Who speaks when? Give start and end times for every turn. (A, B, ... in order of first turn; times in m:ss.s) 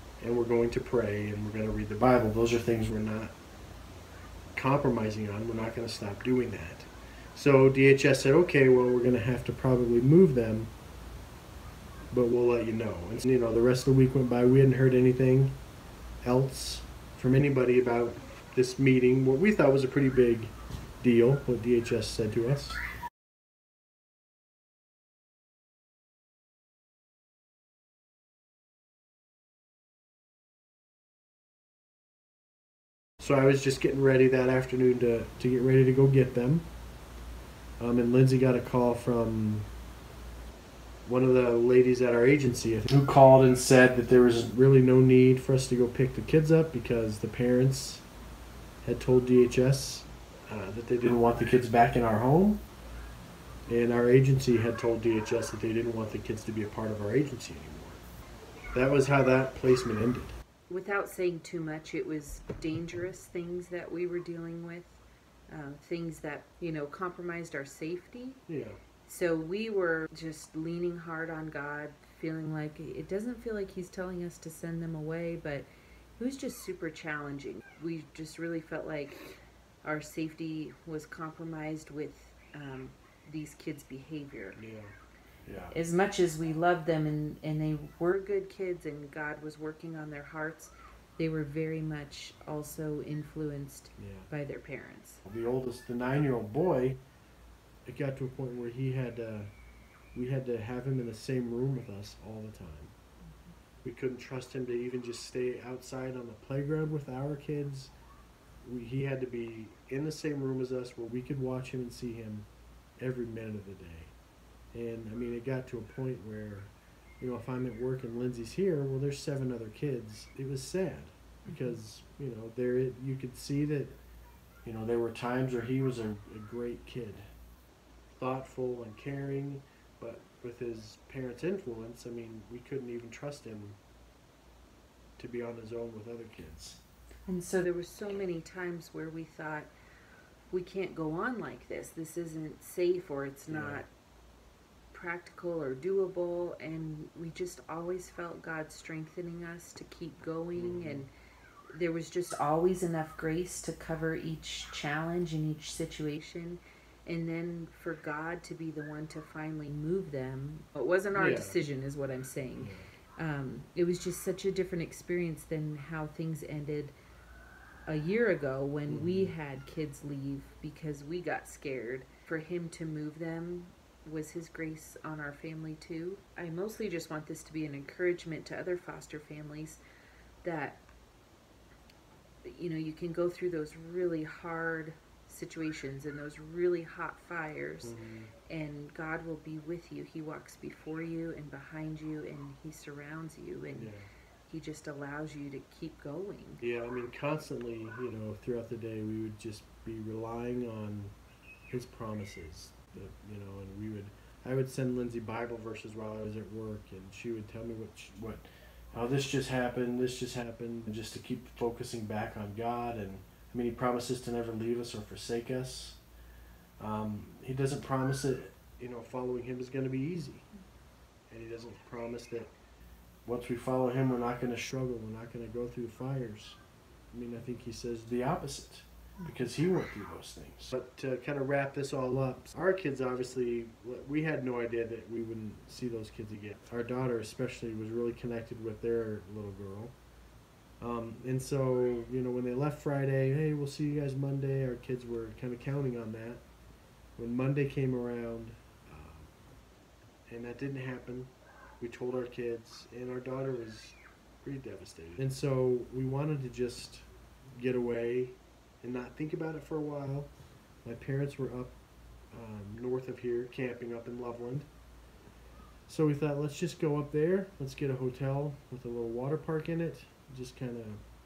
0:00.2-0:03.4 A
0:04.6-0:10.7 A
0:12.1-0:15.6 A
0:16.2-0:22.8 A
0:33.2-0:36.7 A
0:37.8-0:39.7 A
0:41.0-0:48.0 A
0:48.8-0:52.6 A
0:53.7-0:58.0 A
0:58.7-1:00.4 A
1:00.7-1:08.4 B
1:08.5-1:08.8 A
1:09.1-1:19.3 B
1:19.8-1:24.6 B
1:24.6-1:24.9 A
1:25.5-1:25.8 A
1:25.7-1:35.2 B
1:34.0-1:34.3 A
1:35.2-1:37.0 A
1:37.8-1:39.5 A
1:40.1-1:42.9 A
1:43.8-1:47.9 A
1:48.6-1:52.5 A
1:53.0-1:54.1 A
1:54.7-2:04.0 A
2:04.6-2:07.3 A
2:08.2-2:13.8 A
2:15.2-2:16.8 A
2:17.3-2:19.7 B
2:20.5-2:23.9 B
2:23.5-2:23.8 A
2:24.9-2:31.1 B
2:30.6-2:31.1 A
2:31.7-2:47.0 B
2:41.1-2:41.6 A
2:42.6-2:42.9 A
2:47.9-2:59.8 B
2:48.9-2:49.3 A
3:00.4-3:00.8 B
3:02.4-3:08.0 B
3:07.8-3:08.3 A
3:08.5-3:13.9 B
3:13.7-3:14.1 A
3:14.5-3:16.6 B
3:16.6-3:21.1 A
3:21.7-3:36.0 A
3:36.8-3:40.5 A
3:41.3-3:42.5 A
3:43.3-3:46.6 A
3:47.1-4:00.0 A
4:00.8-4:06.4 A
4:07.2-4:09.3 A
4:10.3-4:20.3 A
4:20.8-4:21.8 A
4:22.3-4:24.7 A
4:25.9-4:31.0 A